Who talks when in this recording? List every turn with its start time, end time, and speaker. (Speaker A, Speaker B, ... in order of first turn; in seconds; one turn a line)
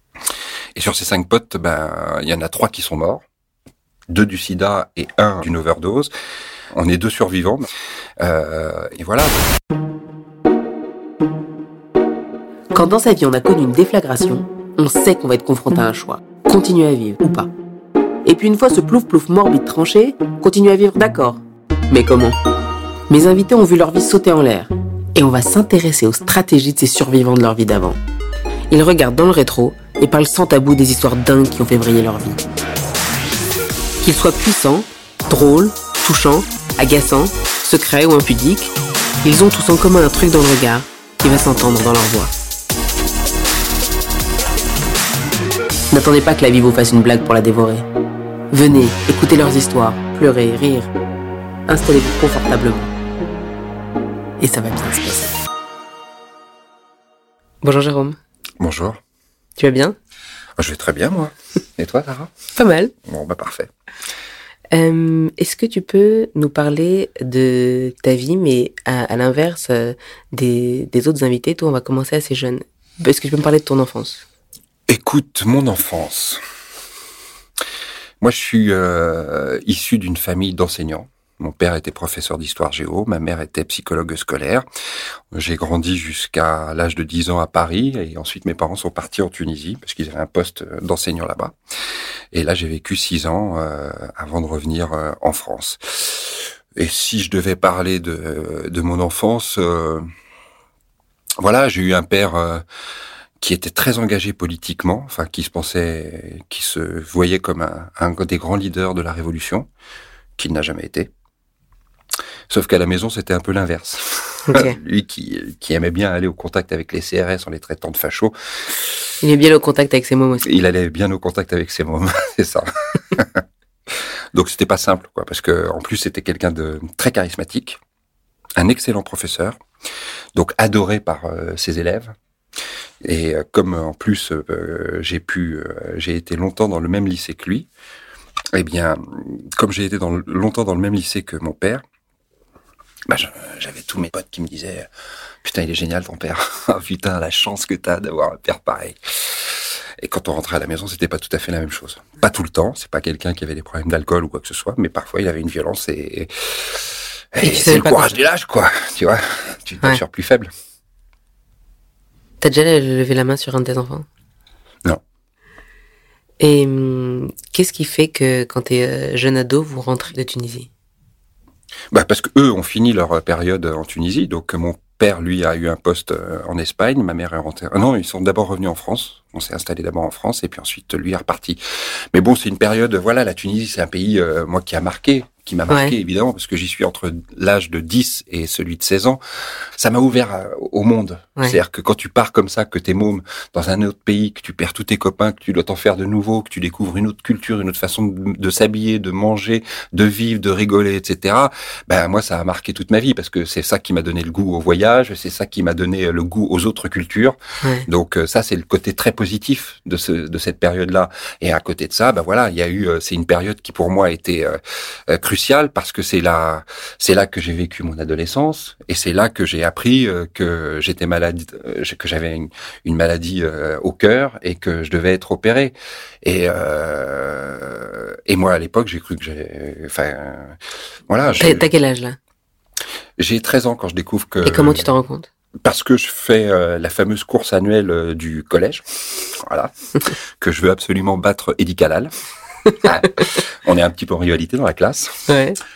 Speaker A: 0.8-3.2
Speaker A: 4.1-6.1
Speaker A: 6.7-7.7
Speaker A: 8.2-9.5
Speaker B: 12.7-17.5
Speaker B: 18.2-22.4
Speaker B: 23.1-28.0
Speaker B: 28.7-32.4
Speaker B: 34.0-42.3
Speaker B: 45.9-47.9
Speaker B: 48.5-50.9
Speaker B: 51.7-52.9
Speaker B: 54.4-55.4
Speaker B: 57.6-58.2
Speaker A: 58.6-59.0
Speaker B: 59.6-60.0
Speaker A: 60.6-62.3
Speaker B: 62.6-62.9
Speaker A: 63.0-63.7
Speaker B: 64.7-74.2
Speaker A: 74.9-76.4
Speaker A: 78.2-84.7
Speaker A: 85.3-91.5
Speaker A: 92.3-100.1
Speaker A: 101.4-102.6
Speaker A: 103.4-109.7
Speaker A: 110.4-111.1
Speaker A: 112.5-119.1
Speaker B: 114.5-114.8
Speaker B: 119.2-120.5
Speaker A: 120.4-127.8
Speaker A: 128.6-129.6
Speaker A: 130.3-132.1
Speaker A: 133.0-137.7
Speaker A: 138.5-141.8
Speaker A: 143.1-144.9
Speaker A: 145.4-160.5
Speaker B: 157.4-158.2
Speaker B: 162.4-164.1
Speaker B: 166.4-170.7
Speaker A: 171.9-230.6
Speaker B: 185.7-185.9
Speaker A: 231.1-231.7
Speaker B: 231.4-232.2
Speaker A: 233.2-234.9
Speaker B: 234.4-235.3
Speaker A: 235.6-242.1
Speaker B: 242.7-243.1
Speaker A: 242.7-245.3
Speaker B: 245.3-245.6